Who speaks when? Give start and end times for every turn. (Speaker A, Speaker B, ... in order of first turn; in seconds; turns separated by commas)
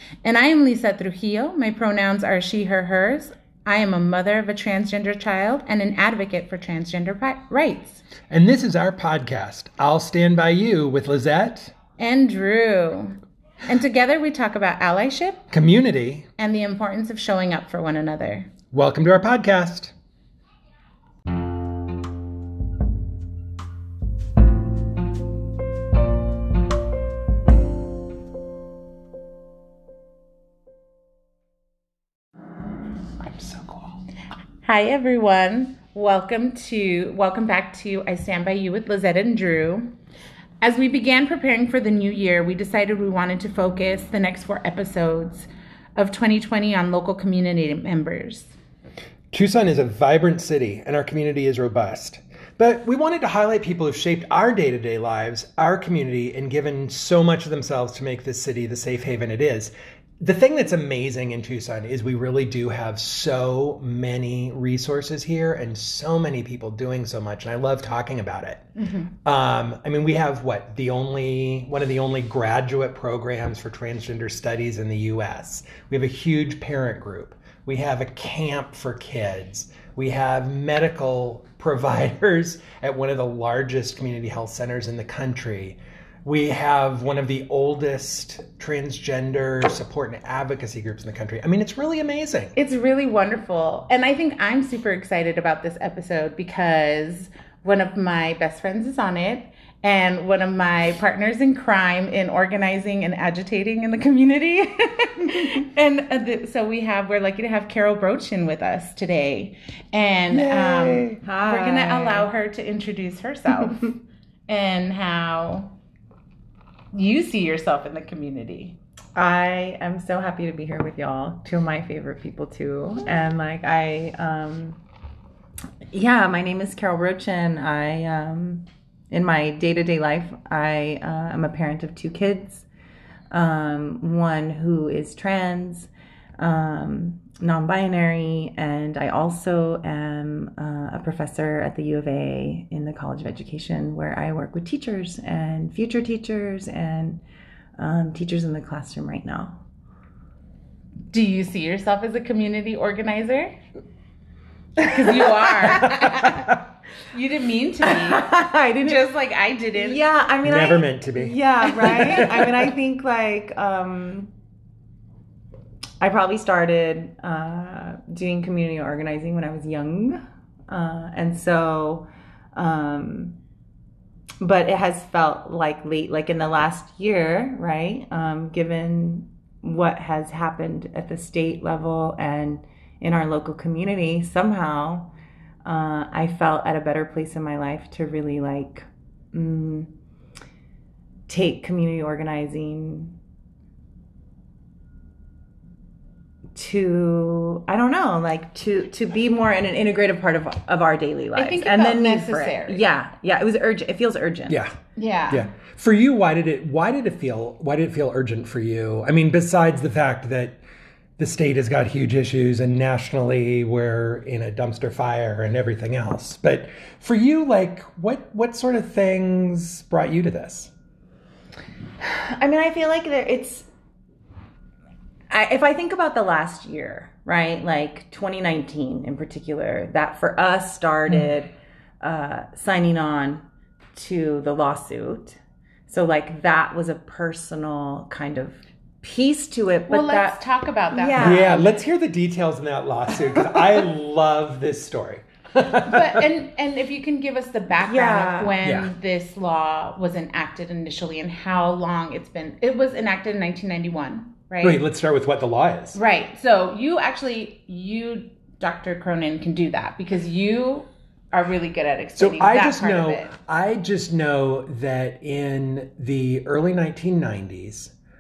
Speaker A: 0.2-8.0, Speaker B: 8.3-11.7, Speaker A: 12.0-15.4, Speaker B: 15.5-16.3, Speaker A: 16.4-18.5, Speaker B: 18.7-19.9, Speaker B: 33.2-33.9, Speaker A: 34.6-39.9, Speaker A: 40.6-48.5, Speaker B: 49.3-92.5, Speaker A: 68.8-69.1, Speaker A: 92.5-114.0, Speaker B: 110.3-111.2, Speaker C: 111.2-112.3, Speaker A: 114.5-115.7, Speaker A: 116.9-118.8, Speaker C: 119.2-124.8, Speaker C: 125.9-132.7, Speaker C: 133.3-147.2, Speaker C: 147.8-149.6, Speaker A: 151.1-153.6, Speaker A: 154.8-156.3, Speaker C: 154.8-156.5, Speaker B: 155.9-156.6, Speaker A: 157.1-160.0, Speaker C: 157.9-159.0, Speaker C: 159.7-164.3, Speaker B: 160.4-162.7, Speaker C: 166.0-173.4, Speaker C: 174.4-185.1, Speaker C: 185.7-189.9, Speaker C: 191.3-193.2, Speaker C: 196.6-204.6, Speaker A: 201.3-202.8, Speaker B: 204.5-204.8, Speaker A: 205.0-205.5, Speaker B: 205.3-210.6, Speaker B: 211.2-220.7, Speaker C: 222.0-223.7, Speaker C: 225.3-233.4, Speaker C: 233.9-240.4, Speaker A: 239.9-241.7, Speaker C: 240.9-241.7, Speaker B: 241.2-246.3, Speaker A: 245.8-254.8, Speaker C: 247.8-248.6, Speaker B: 248.6-248.9, Speaker B: 254.6-256.0, Speaker A: 255.9-263.3, Speaker B: 262.2-267.9